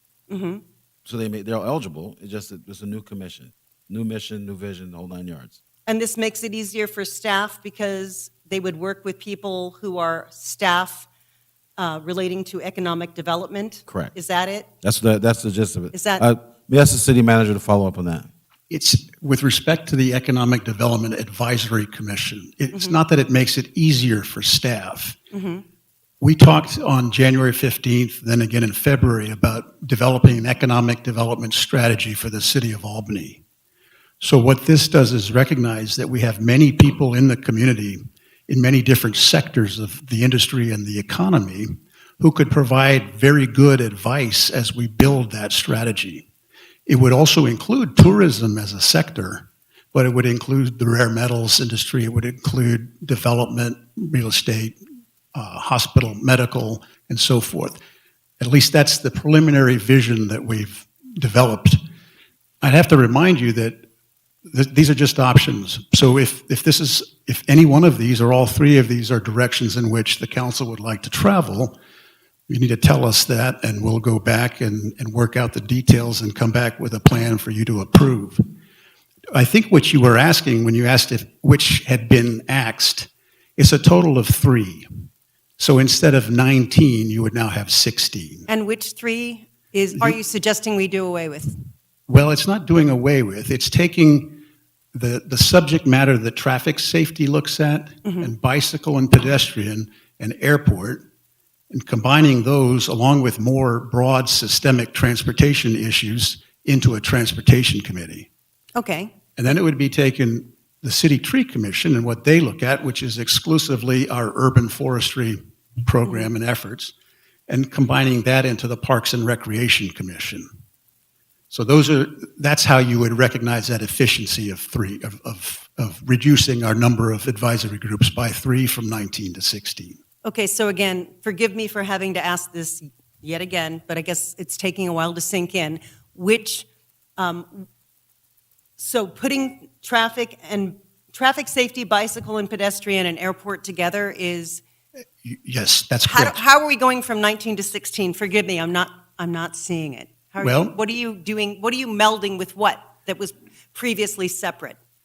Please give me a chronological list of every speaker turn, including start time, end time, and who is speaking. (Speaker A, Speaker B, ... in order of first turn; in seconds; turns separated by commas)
Speaker A: 0.3-0.6, Speaker B: 1.1-5.6, Speaker A: 5.9-11.1, Speaker A: 11.8-14.7, Speaker B: 13.9-14.1, Speaker B: 14.8-18.3, Speaker A: 15.9-16.2, Speaker C: 18.7-25.2, Speaker A: 25.3-25.6, Speaker C: 26.2-33.4, Speaker C: 34.2-46.3, Speaker C: 46.9-54.8, Speaker C: 55.3-57.8, Speaker C: 58.4-61.8, Speaker C: 62.6-63.9, Speaker C: 64.5-71.8, Speaker C: 72.5-78.4, Speaker C: 79.3-84.9, Speaker C: 85.6-88.5, Speaker A: 88.5-91.6, Speaker C: 92.1-94.4, Speaker C: 94.9-101.0, Speaker A: 98.0-98.3, Speaker C: 101.7-108.3, Speaker A: 108.8-109.1, Speaker C: 109.4-116.9, Speaker A: 116.0-116.3, Speaker C: 117.5-120.5, Speaker C: 121.5-130.0, Speaker A: 130.2-137.7, Speaker A: 138.8-144.6, Speaker C: 145.2-146.4, Speaker A: 146.1-154.8, Speaker C: 150.4-150.7